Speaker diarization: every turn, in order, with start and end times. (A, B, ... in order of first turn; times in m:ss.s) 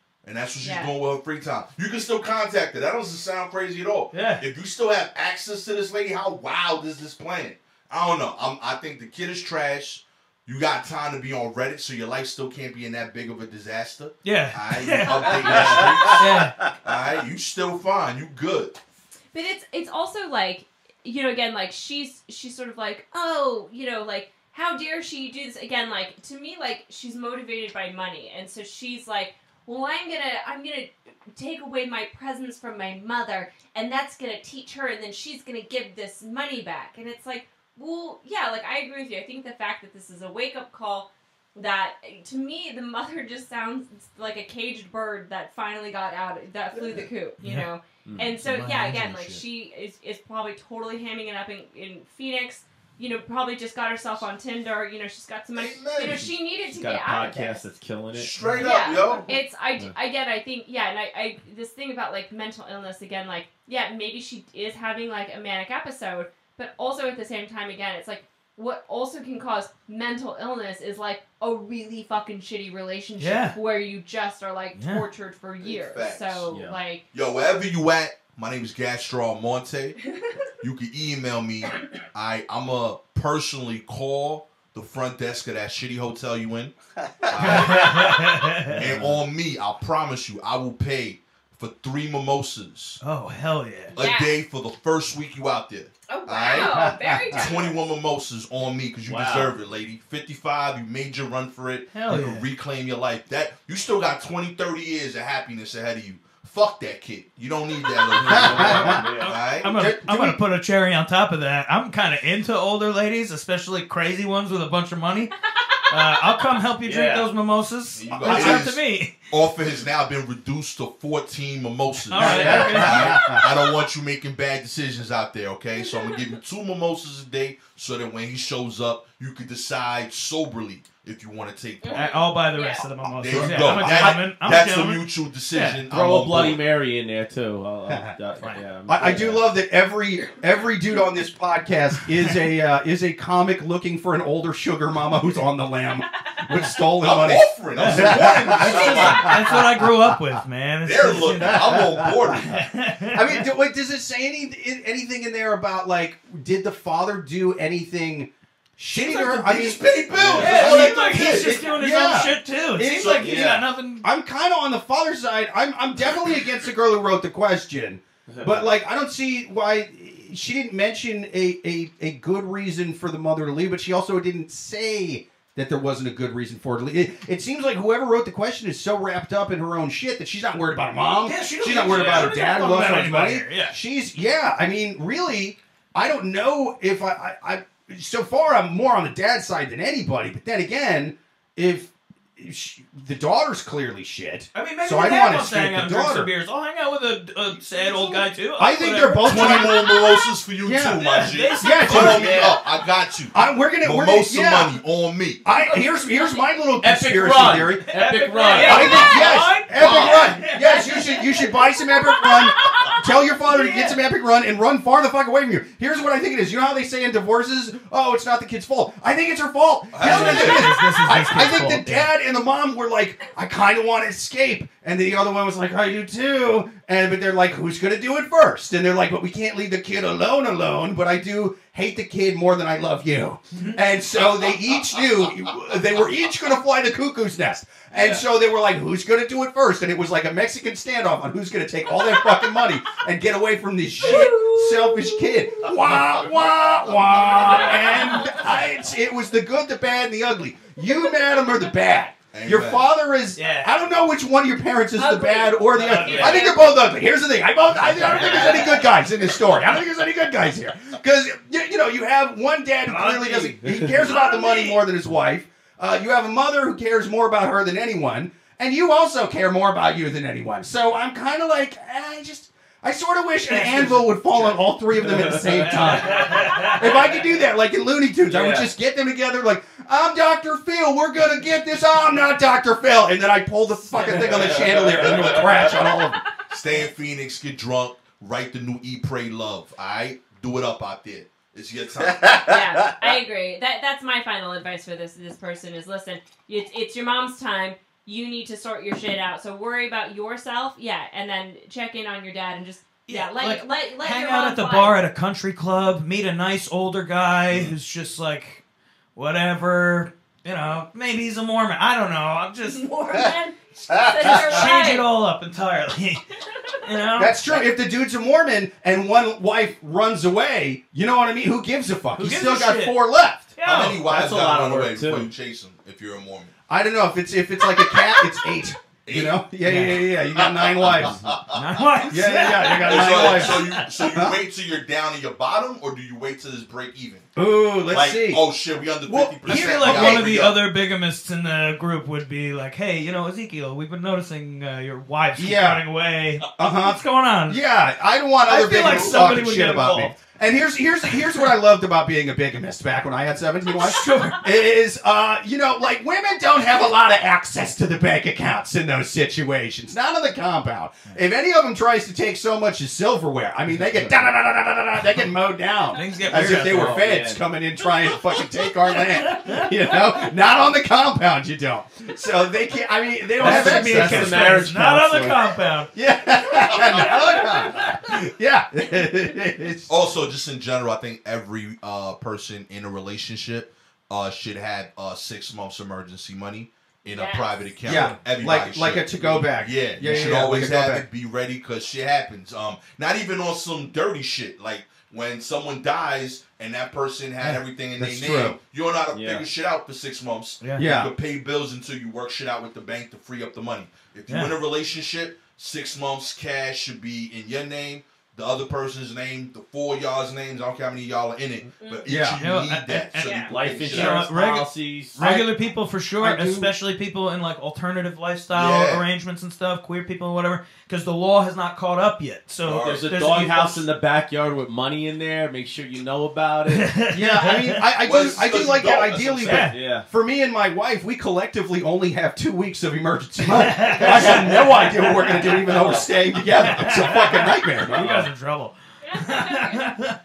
0:00.2-0:18.8 A
0:00.6-0:00.9 B
0:04.1-0:04.4 C
0:14.2-0:16.6 C
0:15.2-0:16.7 D
0:19.3-0:57.6 B
0:46.7-0:47.1 A
0:47.4-0:49.3 C
0:48.0-0:48.4 D
0:48.9-0:49.4 D
0:55.5-0:56.3 A
0:56.0-0:59.0 D
0:58.1-0:59.3 A
0:58.4-0:59.3 C
0:58.6-1:17.0 B
1:13.2-1:13.6 C
1:14.7-1:15.0 C
1:15.6-1:16.5 A
1:16.5-1:16.8 D
1:17.1-1:26.7 A
1:27.2-1:27.8 E
1:27.3-1:33.0 A
1:27.4-1:28.8 C
1:28.7-1:29.2 D
1:33.0-1:34.0 C
1:33.9-1:34.3 B
1:33.9-1:49.8 A
1:36.1-1:37.8 B
1:36.5-1:37.5 E
1:39.0-1:39.5 D
1:41.9-1:42.4 C
1:48.1-1:49.4 D
1:48.3-1:49.1 E
1:49.1-1:55.3 C
1:49.6-1:50.4 E
1:55.9-1:59.3 C
1:56.8-1:57.3 D
1:57.9-2:12.1 A
1:58.1-1:58.7 E
2:02.0-2:03.2 C
2:02.2-2:03.4 E
2:02.2-2:03.0 D
2:05.8-2:06.2 B
2:11.8-2:12.8 B
2:11.9-2:15.8 C
2:12.8-2:16.6 A
2:13.3-2:14.2 E
2:15.8-2:19.4 D
2:17.9-2:18.1 E
2:18.4-2:18.6 C
2:18.8-2:30.0 E
2:27.0-2:29.5 A
2:27.7-2:31.8 C
2:28.6-2:29.3 D
2:30.8-2:32.6 A
2:31.5-2:32.4 E
2:32.4-2:33.4 C
2:33.1-2:43.4 E
2:39.0-2:41.7 A
2:40.1-2:40.7 D
2:40.4-2:44.1 C
2:42.9-2:43.4 A
2:43.2-2:43.6 D
2:44.0-3:16.3 E
2:48.3-2:48.6 D
3:01.2-3:03.8 C
3:01.8-3:02.4 D
3:14.5-3:19.7 C
3:17.9-3:18.2 B
3:18.6-3:20.0 E
3:19.2-3:25.4 A
3:19.6-3:20.3 B
3:20.6-3:21.0 E
3:21.0-3:22.5 C
3:21.5-3:22.5 E
3:21.9-3:22.6 D
3:23.3-3:24.8 E
3:25.4-3:27.9 E
3:26.8-3:29.3 D
3:27.8-3:30.8 C
3:28.6-4:46.2 E
3:28.8-3:29.3 B
3:29.7-3:30.3 A
3:30.6-3:33.0 B
3:33.5-3:34.0 C
3:39.9-3:40.7 A
3:40.0-3:42.1 C
3:57.9-3:58.2 D
4:04.0-4:05.7 B
4:07.4-4:07.8 D
4:07.6-4:08.2 B
4:12.3-4:12.9 A
4:13.4-4:13.7 C
4:15.0-4:16.8 B
4:15.8-4:16.5 C
4:16.0-4:16.4 D
4:17.9-4:18.8 C
4:22.9-4:24.6 C
4:23.6-4:24.1 D
4:33.5-4:34.6 C
4:35.0-4:35.7 D
4:35.3-4:36.9 C
4:38.3-4:38.7 D
4:43.9-4:44.8 C
4:44.3-4:45.7 D
4:46.5-4:52.5 A
4:52.4-5:05.0 B
5:03.1-5:08.6 C
5:07.5-5:07.7 A
5:09.2-5:12.9 C
5:12.6-5:15.0 B
5:13.9-5:14.6 E
5:14.2-5:17.4 C
5:17.2-5:23.5 E
5:22.2-5:23.0 C
5:23.6-5:24.0 C
5:23.6-5:26.5 A
5:23.8-5:25.3 D
5:26.7-5:31.2 E
5:29.0-5:29.4 A
5:29.6-5:30.0 C
5:30.3-5:31.6 A
5:30.9-5:31.4 D
5:31.5-5:33.9 C
5:32.1-5:34.4 E
5:32.2-5:37.3 A
5:37.3-5:38.4 E
5:37.8-5:40.6 A
5:39.0-5:40.3 E
5:39.4-5:47.6 C
5:45.4-5:45.8 E
5:46.6-6:14.6 E
5:48.4-5:50.2 C
5:53.8-5:54.4 C
5:54.0-5:54.3 B
6:03.7-6:04.1 D
6:05.9-6:07.0 C
6:06.4-6:07.4 D
6:09.3-6:09.7 C
6:13.4-6:15.4 D
6:13.4-6:15.9 C
6:15.9-6:19.9 E
6:16.7-6:17.6 B
6:19.9-6:54.2 A
6:27.1-6:27.7 B
6:27.8-6:31.0 E
6:27.9-6:28.2 C
6:30.0-6:30.3 C
6:37.9-6:38.6 E
6:39.1-6:39.5 D
6:40.8-6:41.1 E
6:44.3-6:44.5 C
6:51.8-6:52.1 B
6:52.0-6:52.4 E
6:52.4-7:03.8 C
6:53.2-6:53.5 B
6:53.5-6:55.2 D
6:55.2-6:55.5 E
6:56.2-6:56.7 E
6:58.5-6:59.0 A
7:02.6-7:03.1 A
7:02.8-7:07.0 D
7:06.7-7:07.8 C
7:07.1-7:18.2 E
7:08.0-7:09.7 A
7:09.4-7:09.8 C
7:09.7-7:10.1 D
7:13.5-7:14.5 C
7:13.8-7:14.7 D
7:15.6-7:16.0 D
7:16.5-7:20.2 C
7:17.8-7:18.2 D
7:19.0-7:19.9 B